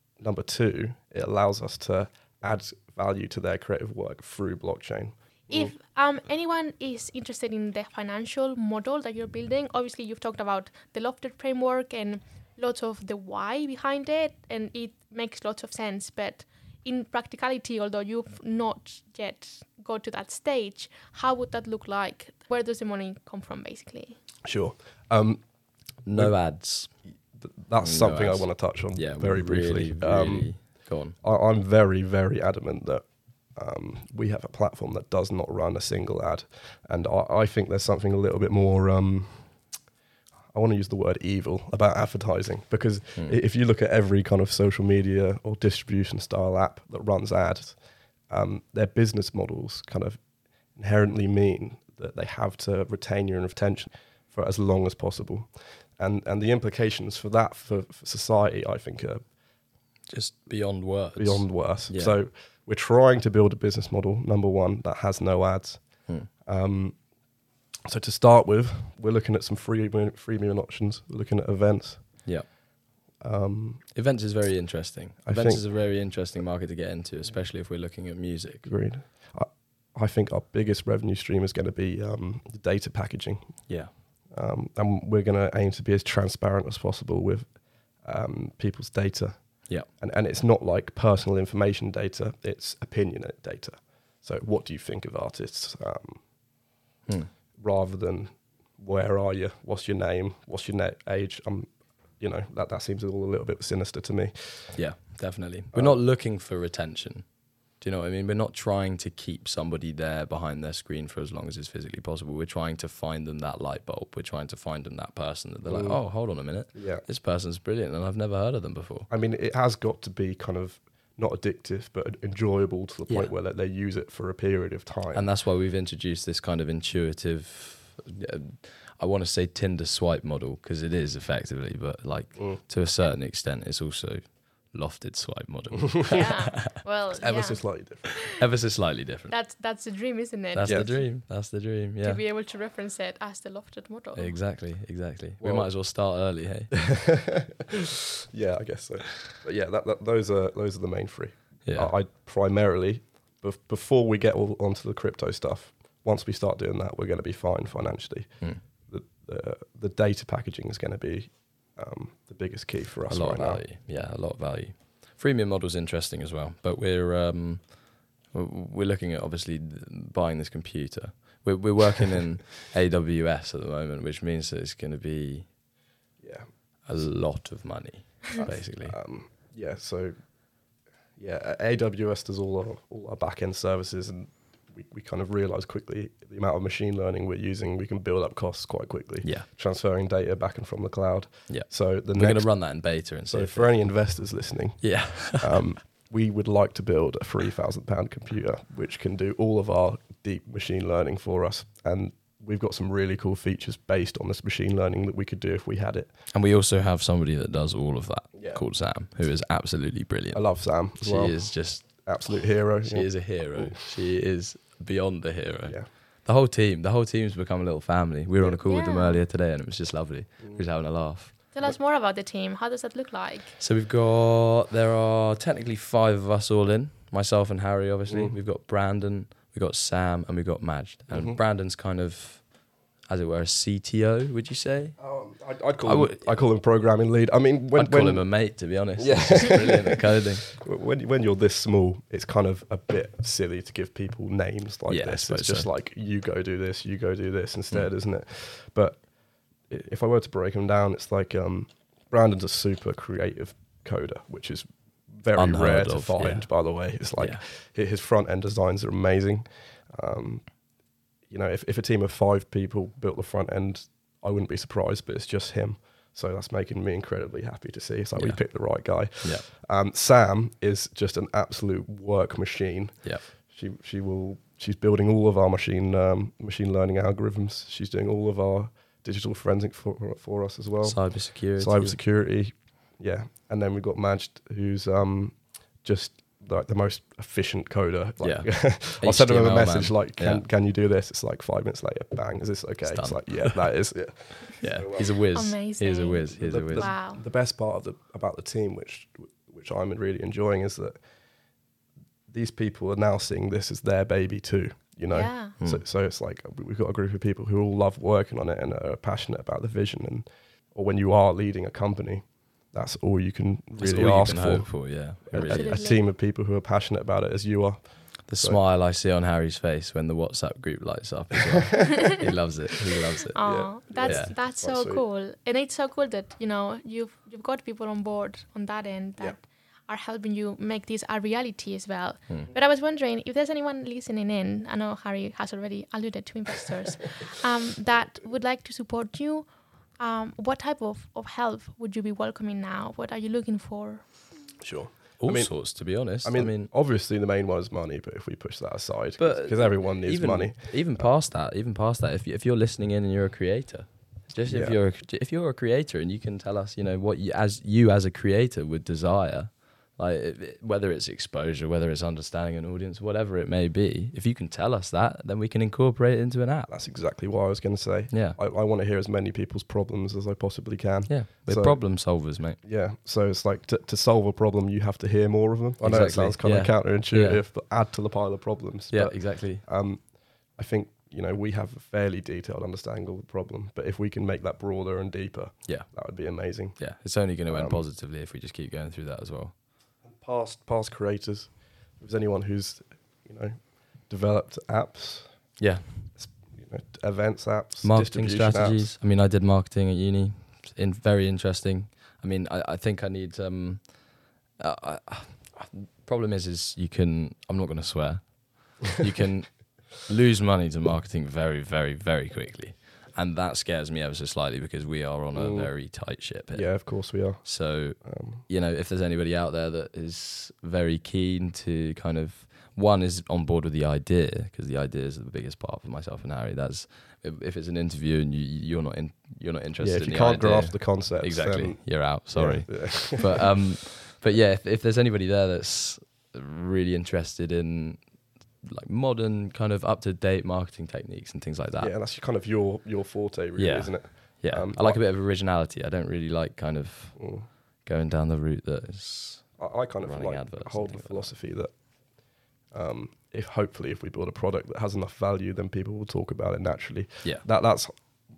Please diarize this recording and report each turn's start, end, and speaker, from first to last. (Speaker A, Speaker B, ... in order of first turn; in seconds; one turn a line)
Speaker A: 0.2-5.7
Speaker B: 5.5-24.2
Speaker A: 24.4-25.4
Speaker C: 26.0-26.9
Speaker A: 27.4-30.5
Speaker C: 27.8-31.1
Speaker A: 31.2-33.0
Speaker A: 33.5-39.5
Speaker A: 40.5-47.8
Speaker A: 48.3-50.2
Speaker A: 50.8-59.2
Speaker C: 60.1-62.1
Speaker A: 61.2-65.8
Speaker A: 66.4-67.0
Speaker A: 67.9-72.2
Speaker A: 73.2-73.8
Speaker C: 73.9-78.7
Speaker A: 75.2-75.6
Speaker A: 78.7-83.7
Speaker A: 84.3-87.5
Speaker A: 88.0-96.2
Speaker A: 97.6-104.8
Speaker C: 104.7-107.2
Speaker A: 105.7-106.0
Speaker C: 107.8-119.1
Speaker A: 115.6-116.0
Speaker A: 116.7-117.0
Speaker A: 119.1-125.3
Speaker C: 125.1-136.7
Speaker B: 136.1-137.7
Speaker A: 137.2-138.2
Speaker C: 138.3-139.3
Speaker B: 139.3-141.1
Speaker C: 140.5-142.2
Speaker A: 140.6-141.0
Speaker B: 142.0-144.4
Speaker C: 144.1-146.9
Speaker A: 145.4-145.7
Speaker A: 146.7-158.4
Speaker C: 151.7-151.9
Speaker A: 158.9-163.6
Speaker C: 163.1-167.8
Speaker C: 168.3-175.5
Speaker A: 176.2-176.5
Speaker C: 176.9-179.0
Speaker A: 178.4-180.1
Speaker A: 181.2-192.6
Speaker C: 191.5-193.7
Speaker A: 193.3-206.1
Speaker C: 194.8-195.6
Speaker C: 206.3-212.1
Speaker A: 208.3-208.6
Speaker A: 210.3-213.9
Speaker C: 212.8-221.3
Speaker B: 218.6-219.2
Speaker B: 221.5-223.6
Speaker C: 223.6-232.5
Speaker A: 228.1-228.3
Speaker A: 231.1-231.4
Speaker C: 233.1-235.1
Speaker A: 235.0-238.3
Speaker C: 235.8-236.3
Speaker C: 237.7-240.5
Speaker A: 238.9-249.0
Speaker C: 244.9-245.7
Speaker A: 249.7-260.5
Speaker C: 255.3-257.4
Speaker A: 261.3-295.1
Speaker C: 268.1-268.4
Speaker C: 280.8-282.0
Speaker C: 288.2-290.4
Speaker C: 292.8-293.6
Speaker C: 294.5-296.9
Speaker B: 295.3-297.2
Speaker A: 296.3-301.0
Speaker A: 302.3-318.6
Speaker B: 305.1-305.5
Speaker C: 313.8-315.9
Speaker B: 315.4-316.0
Speaker C: 318.3-324.3
Speaker B: 323.3-344.1
Speaker A: 323.4-325.0
Speaker A: 344.6-345.6
Speaker C: 345.2-346.7
Speaker A: 346.2-351.1
Speaker C: 349.2-366.7
Speaker A: 354.4-354.8
Speaker A: 366.7-371.8
Speaker C: 368.1-368.4
Speaker C: 371.1-372.6
Speaker A: 372.6-386.8
Speaker C: 375.8-377.4
Speaker C: 378.9-379.6
Speaker C: 385.6-385.9
Speaker C: 386.8-389.5
Speaker A: 387.5-387.8
Speaker A: 390.0-395.3
Speaker C: 395.6-396.1
Speaker A: 396.2-398.9
Speaker C: 397.8-404.0
Speaker C: 404.6-438.0
Speaker A: 415.3-415.7
Speaker A: 416.5-418.4
Speaker A: 429.8-433.5
Speaker C: 438.6-441.9
Speaker A: 441.8-445.0
Speaker C: 443.6-451.3
Speaker A: 447.2-447.4
Speaker A: 449.6-451.7
Speaker A: 452.7-457.9